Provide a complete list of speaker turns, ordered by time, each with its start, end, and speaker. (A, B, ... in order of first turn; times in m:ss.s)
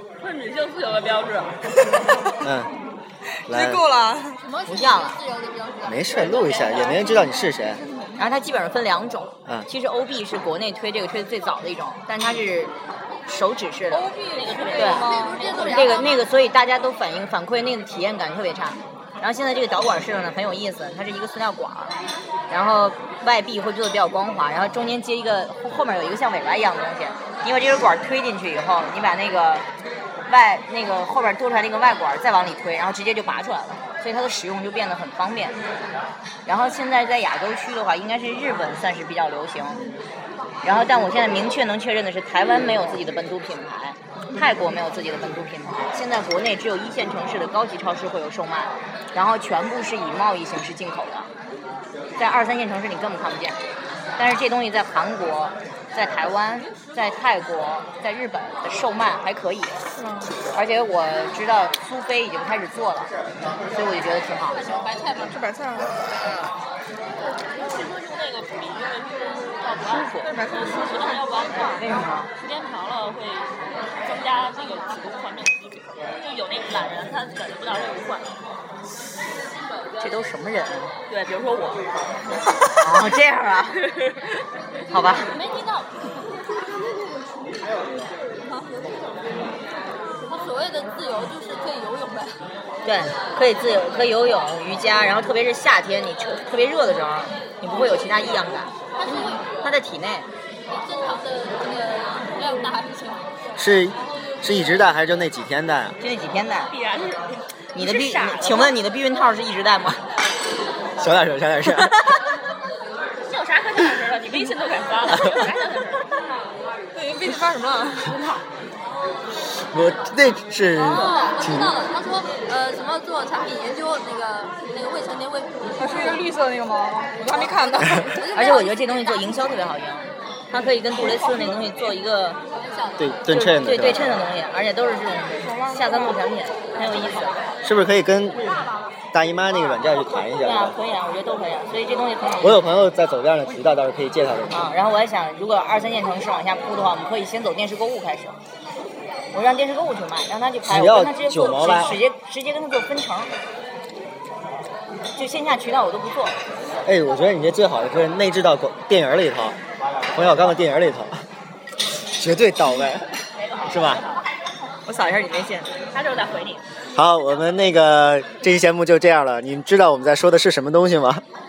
0:00.2-0:01.6 A
0:02.4-0:02.7 B
0:03.4-0:04.4 C
0:03.5-0:03.9 B
0:04.4-0:06.6 D
0:04.6-0:05.2 E
0:05.8-0:07.8 B
0:06.6-0:08.2 C
0:08.2-0:12.7 E
0:13.2-0:14.1 E
0:13.9-0:15.9 C
0:14.3-0:16.1 A
0:14.7-0:22.0 E
0:15.2-0:15.7 D
0:22.5-0:29.6 E
0:30.3-0:35.6 E
0:36.4-0:39.8 E
0:40.6-0:51.3 E
0:52.2-0:53.6 E
0:54.2-0:59.8 E
1:00.0-1:00.3 C
1:00.5-1:03.1 E
1:03.7-1:04.7 E
1:04.6-1:05.0 D
1:05.0-1:06.0 C
1:07.5-1:13.5 A
1:09.9-1:10.3 E
1:10.1-1:11.9 C
1:11.7-1:12.3 E
1:14.0-1:18.4 A
1:20.0-1:20.9 E
1:21.1-1:21.9 A
1:22.7-1:23.8 E
1:24.9-1:25.4 E
1:25.4-1:26.0 D
1:30.2-1:32.4 D
1:32.8-1:38.7 E
1:39.0-1:39.4 D
1:39.6-1:40.3 E
1:40.7-1:43.3 D
1:43.6-1:46.0 B
1:46.0-1:46.7 E
1:46.6-1:48.8 A
1:47.7-1:50.0 E
1:51.0-1:51.9 B
1:51.7-1:52.2 E
1:53.2-1:56.1 A
1:56.9-1:58.4 C
1:59.7-2:01.8 B
2:00.8-2:06.3 D
2:05.8-2:08.2 C
2:07.3-2:07.5 E
2:08.2-2:08.7 D
2:08.3-2:12.4 E
2:11.0-2:11.5 C
2:12.7-2:13.0 D
2:13.0-2:14.3 B
2:13.3-2:17.4 E
2:15.4-2:16.2 C
2:17.6-2:18.5 B
2:19.1-2:20.8 B
2:20.4-2:22.6 E
2:22.4-2:24.7 B
2:24.5-2:28.4 E
2:29.3-2:33.3 E
2:30.6-2:32.0 B
2:35.1-2:36.4 E
2:36.8-2:39.6 B
2:40.1-2:41.2 B
2:42.1-2:44.0 B
2:43.4-2:44.2 A
2:44.8-2:45.7 E
2:45.8-2:46.6 A
2:46.9-2:51.2 B